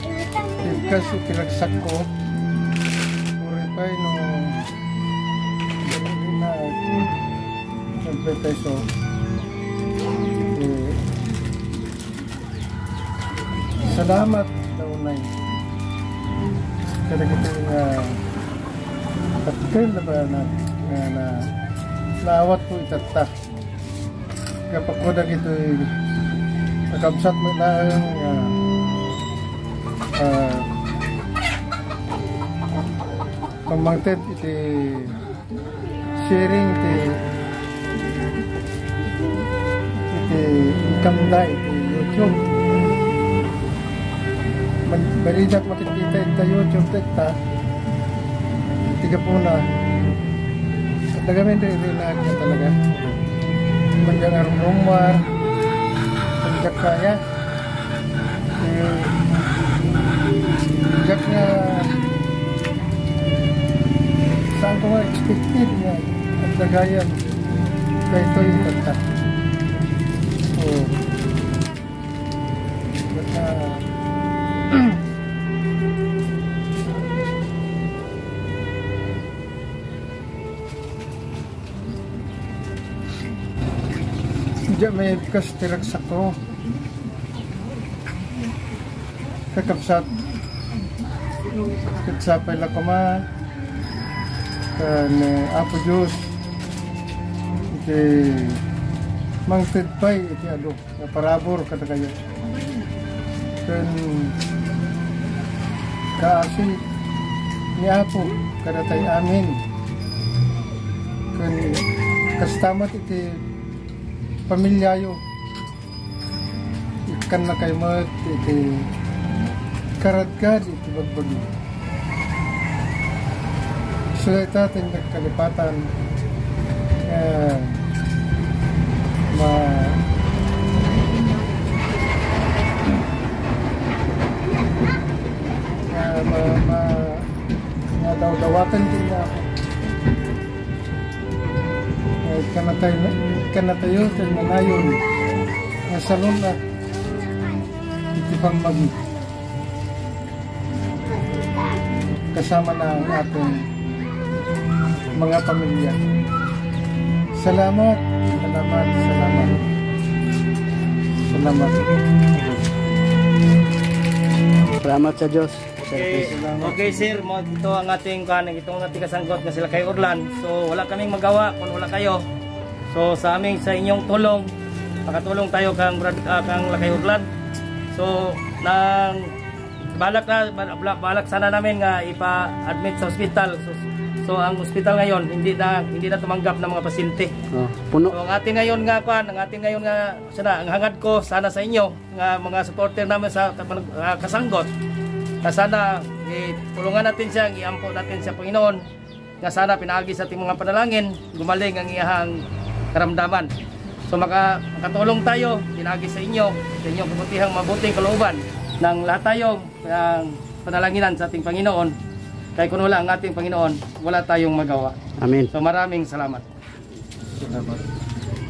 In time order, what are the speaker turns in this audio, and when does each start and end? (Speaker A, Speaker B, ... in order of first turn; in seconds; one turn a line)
Speaker A: 0.6-2.1
Speaker A: 3.4-4.7
Speaker A: 5.8-6.8
Speaker A: 8.0-8.9
Speaker A: 10.5-11.0
Speaker A: 13.8-15.3
Speaker A: 17.1-18.2
Speaker A: 19.4-21.5
Speaker A: 22.2-23.3
Speaker A: 24.7-25.9
Speaker A: 26.9-28.6
Speaker A: 30.2-30.7
Speaker A: 33.7-35.2
Speaker A: 36.2-37.2
Speaker A: 40.1-42.4
Speaker A: 44.9-47.4
Speaker A: 49.0-49.7
Speaker A: 51.1-52.9
Speaker A: 54.0-55.2
Speaker A: 56.4-57.2
Speaker A: 58.6-59.2
Speaker A: 60.9-61.9
Speaker A: 64.6-67.4
Speaker A: 68.1-69.0
Speaker A: 70.5-71.0
Speaker A: 73.1-73.8
Speaker A: 84.7-86.4
Speaker A: 89.5-90.1
Speaker A: 91.9-93.2
Speaker A: 94.8-96.3
Speaker A: 97.7-98.6
Speaker A: 99.5-102.2
Speaker A: 103.6-104.4
Speaker A: 106.2-106.8
Speaker A: 107.8-109.6
Speaker A: 111.3-111.8
Speaker A: 112.4-113.4
Speaker A: 114.5-115.2
Speaker A: 117.1-118.9
Speaker A: 120.0-121.5
Speaker A: 124.1-125.9
Speaker A: 127.0-127.8
Speaker A: 129.3-130.0
Speaker A: 135.9-137.3
Speaker A: 138.0-139.5
Speaker A: 142.2-145.0
Speaker A: 145.9-146.6
Speaker A: 148.2-149.0
Speaker A: 152.3-153.7
Speaker A: 155.1-156.0
Speaker A: 157.4-159.6
Speaker A: 161.3-162.0
Speaker B: 164.8-166.4
Speaker C: 165.9-172.2
Speaker A: 166.3-166.8
Speaker C: 172.9-174.5
Speaker C: 175.1-177.3
Speaker C: 177.9-179.3
Speaker C: 179.9-187.3
Speaker B: 187.5-188.2
Speaker C: 188.1-194.7
Speaker C: 195.4-198.9
Speaker C: 199.4-203.5
Speaker C: 204.1-212.0
Speaker C: 212.6-215.0
Speaker B: 215.2-215.5
Speaker C: 215.5-216.4
Speaker A: 217.4-217.8